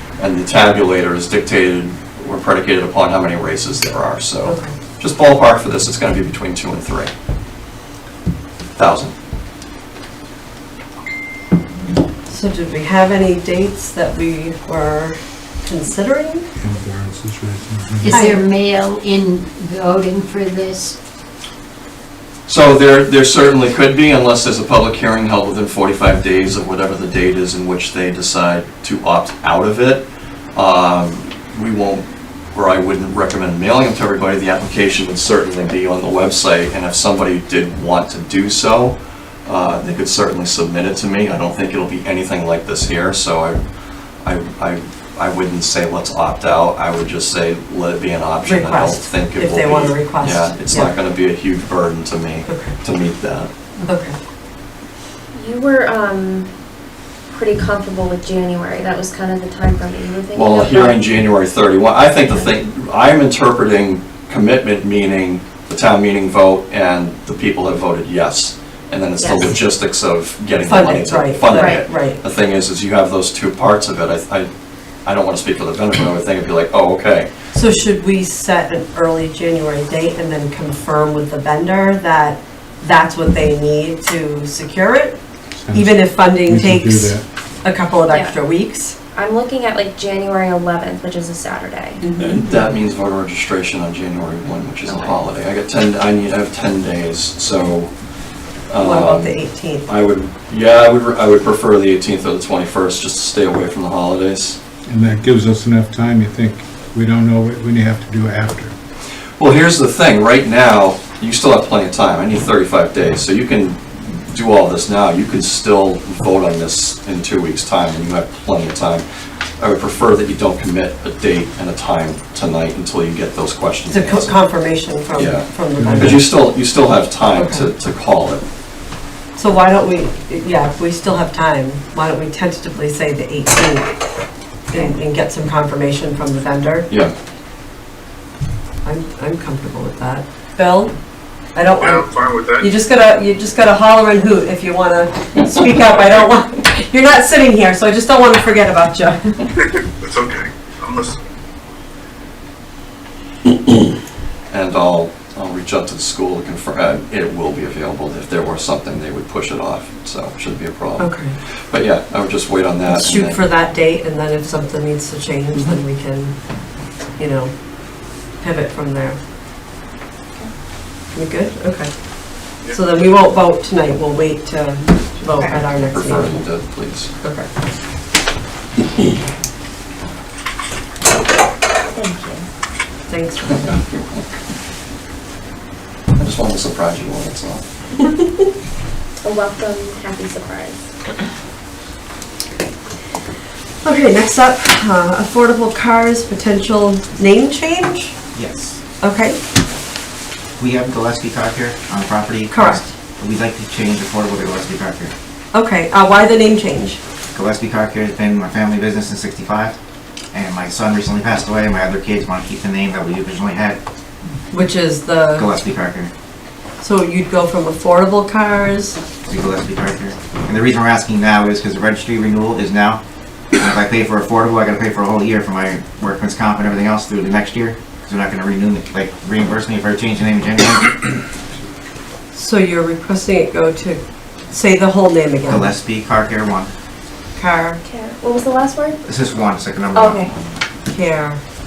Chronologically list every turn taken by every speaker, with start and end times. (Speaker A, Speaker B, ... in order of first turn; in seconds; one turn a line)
Speaker A: 0.2-7.1
Speaker B: 4.5-4.7
Speaker A: 8.8-9.1
Speaker B: 12.3-16.4
Speaker C: 16.6-18.2
Speaker D: 18.0-21.0
Speaker B: 18.1-18.4
Speaker A: 22.5-43.6
Speaker A: 44.2-53.5
Speaker B: 48.5-50.9
Speaker B: 52.5-52.8
Speaker B: 53.8-54.1
Speaker E: 55.3-56.5
Speaker E: 57.3-61.0
Speaker A: 60.3-74.5
Speaker E: 69.2-69.6
Speaker B: 70.7-72.2
Speaker E: 71.5-71.8
Speaker A: 75.0-77.3
Speaker B: 77.5-85.2
Speaker C: 85.6-87.2
Speaker B: 85.7-89.0
Speaker E: 88.1-88.4
Speaker E: 89.1-92.0
Speaker B: 92.0-92.4
Speaker A: 92.2-97.9
Speaker E: 94.9-95.2
Speaker A: 98.7-104.6
Speaker B: 98.8-99.9
Speaker C: 104.9-108.8
Speaker A: 109.4-119.0
Speaker A: 119.6-124.5
Speaker B: 123.9-126.3
Speaker A: 125.1-128.4
Speaker C: 125.8-126.2
Speaker B: 127.3-127.7
Speaker B: 129.4-133.9
Speaker B: 134.7-136.9
Speaker B: 138.8-140.9
Speaker B: 141.6-149.4
Speaker F: 141.8-142.7
Speaker F: 150.0-151.2
Speaker A: 154.5-161.1
Speaker B: 161.0-161.3
Speaker A: 161.7-163.4
Speaker B: 162.9-166.3
Speaker B: 167.2-167.5
Speaker B: 168.4-169.2
Speaker B: 171.1-171.9
Speaker B: 172.7-176.4
Speaker E: 175.3-175.6
Speaker A: 175.9-177.1
Speaker B: 177.2-177.5
Speaker E: 181.8-182.5
Speaker B: 183.1-183.7
Speaker A: 183.5-184.3
Speaker A: 186.2-187.6
Speaker E: 189.2-190.8
Speaker B: 193.8-198.1
Speaker G: 198.3-198.8
Speaker B: 199.0-199.4
Speaker G: 200.6-205.1
Speaker B: 202.5-202.9
Speaker B: 205.5-207.0
Speaker G: 207.3-209.8
Speaker G: 210.3-213.8
Speaker B: 214.5-215.5
Speaker G: 215.4-216.1
Speaker B: 216.8-219.0
Speaker G: 219.3-223.0
Speaker G: 223.6-231.0
Speaker B: 232.3-235.7
Speaker G: 235.5-236.7
Speaker B: 237.4-237.8
Speaker E: 237.8-239.0
Speaker G: 239.1-240.6
Speaker E: 240.0-240.3
Speaker B: 240.9-241.4